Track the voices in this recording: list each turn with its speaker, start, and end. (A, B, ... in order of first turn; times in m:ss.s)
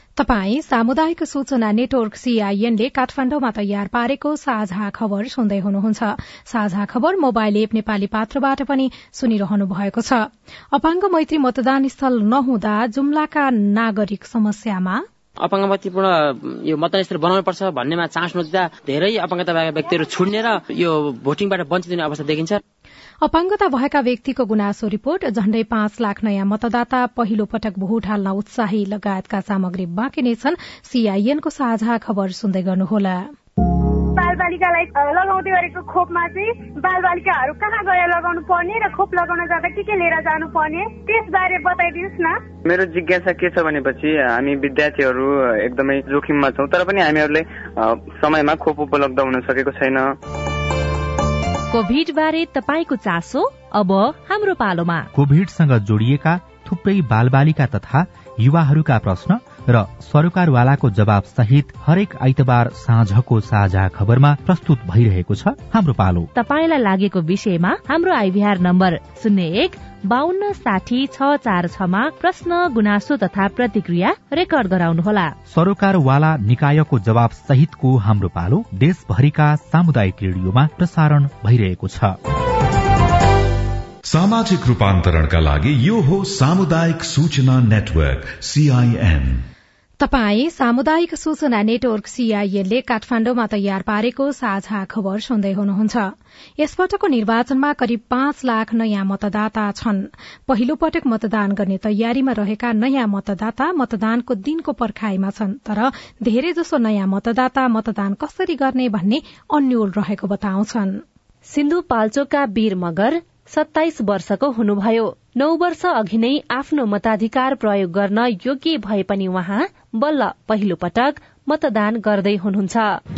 0:00.2-0:15.0 A
0:15.4-0:22.6 B
0:23.2-0:33.3 A
0:34.2-0:42.4 C
0:42.7-0:47.4 D
0:48.2-0:50.0 D
0:51.7-0:55.0 E
0:55.1-1:06.3 F
1:06.4-1:15.3 E
1:15.5-1:22.2 F
1:24.1-1:29.4 G
1:30.0-1:51.0 A
1:51.5-2:02.9 E